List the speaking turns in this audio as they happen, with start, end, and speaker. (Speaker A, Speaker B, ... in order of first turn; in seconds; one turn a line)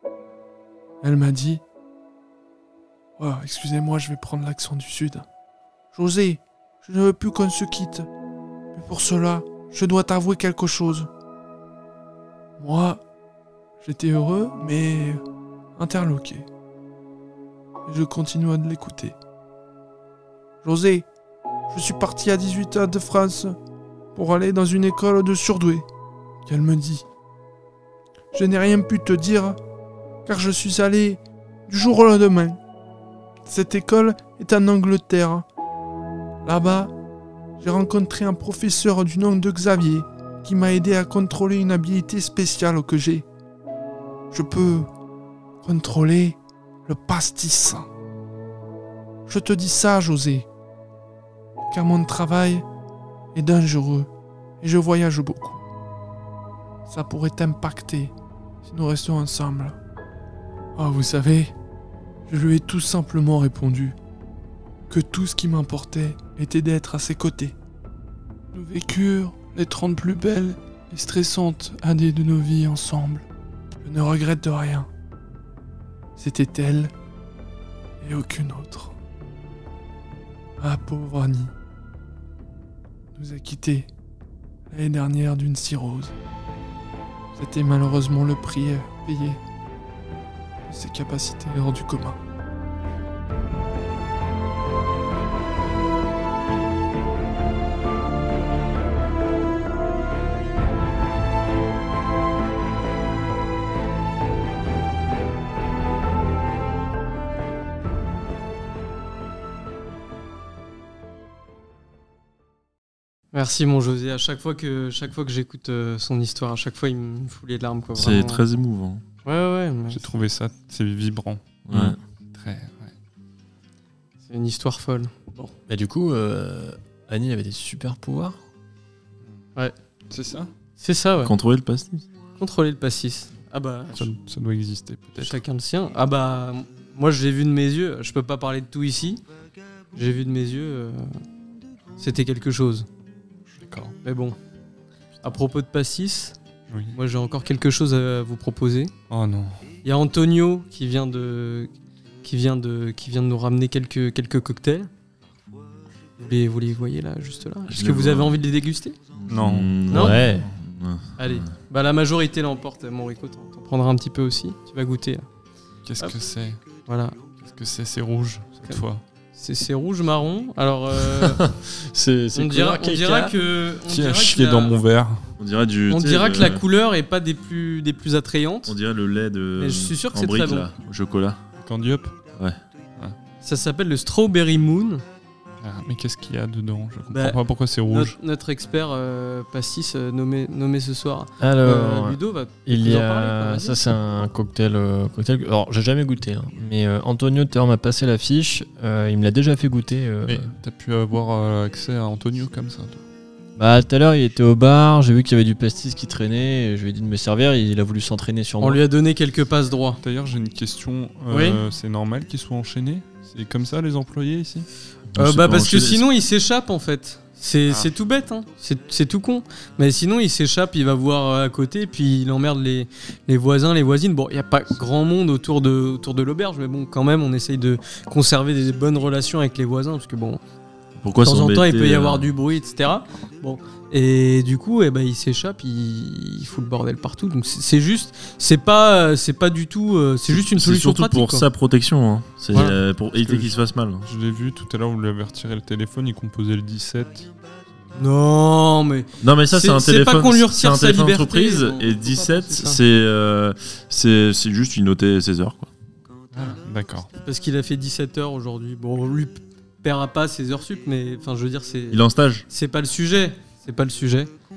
Speaker A: 1.0-1.6
Speaker A: 3.2-5.3
Speaker A: 5.9-8.1
Speaker A: 8.7-11.1
Speaker A: 12.6-13.0
Speaker A: 13.8-15.2
Speaker A: 15.8-16.5
Speaker A: 17.9-19.2
Speaker A: 20.6-21.1
Speaker A: 21.7-23.6
Speaker A: 24.1-25.9
Speaker A: 26.4-27.1
Speaker A: 28.3-29.6
Speaker A: 30.3-32.6
Speaker A: 33.5-35.5
Speaker A: 36.5-36.9
Speaker A: 37.6-43.3
Speaker A: 44.3-44.9
Speaker A: 45.6-47.9
Speaker A: 49.3-50.5
Speaker A: 51.7-52.7
Speaker A: 53.3-54.1
Speaker A: 54.6-55.7
Speaker A: 56.9-58.1
Speaker A: 58.6-59.8
Speaker A: 60.8-61.5
Speaker A: 62.3-64.0
Speaker A: 64.9-67.6
Speaker A: 68.5-73.3
Speaker A: 73.8-74.9
Speaker A: 76.2-76.9
Speaker A: 78.0-79.0
Speaker A: 80.6-81.5
Speaker A: 83.1-83.9
Speaker A: 84.7-86.1
Speaker A: 87.3-89.4
Speaker A: 90.7-92.2
Speaker B: 113.3-118.4
Speaker C: 118.0-119.0
Speaker B: 119.2-120.1
Speaker D: 119.9-122.9
Speaker C: 121.7-122.0
Speaker B: 124.3-125.5
Speaker E: 125.7-128.4
Speaker D: 130.1-130.5
Speaker B: 130.8-131.3
Speaker C: 131.2-132.1
Speaker B: 132.4-134.1
Speaker D: 133.9-135.4
Speaker B: 135.2-139.2
Speaker B: 139.9-141.2
Speaker B: 142.0-142.9
Speaker D: 143.5-143.9
Speaker B: 144.0-144.4
Speaker B: 145.2-146.4
Speaker D: 146.7-146.9
Speaker B: 146.9-148.9
Speaker D: 149.1-149.6
Speaker B: 149.8-151.7
Speaker B: 152.2-154.9
Speaker B: 156.2-159.0
Speaker C: 157.7-158.4
Speaker C: 159.1-161.5
Speaker D: 159.3-159.7
Speaker B: 159.9-160.2
Speaker E: 159.9-160.5
Speaker B: 161.2-165.3
Speaker D: 165.8-166.6
Speaker B: 166.9-167.2
Speaker D: 167.4-169.0
Speaker B: 169.3-171.4
Speaker E: 171.1-173.4
Speaker B: 172.3-174.7
Speaker D: 173.9-175.2
Speaker C: 175.4-176.6
Speaker B: 175.9-178.7
Speaker C: 178.7-181.4
Speaker B: 179.6-180.7
Speaker D: 181.6-182.1
Speaker B: 183.4-185.0
Speaker D: 185.6-188.2
Speaker B: 187.1-193.8
Speaker E: 191.4-200.5
Speaker D: 200.2-203.0
Speaker E: 203.6-208.8
Speaker B: 208.6-210.0
Speaker D: 210.0-214.7
Speaker B: 211.3-211.6
Speaker C: 215.1-216.1
Speaker B: 215.2-230.4
Speaker C: 231.0-232.3
Speaker B: 231.2-241.4
Speaker C: 240.3-244.1
Speaker B: 242.5-242.8
Speaker D: 243.2-243.5
Speaker D: 244.0-248.0
Speaker B: 247.9-252.8
Speaker C: 249.2-255.7
Speaker D: 256.3-257.1
Speaker B: 257.2-264.3
Speaker C: 261.9-262.4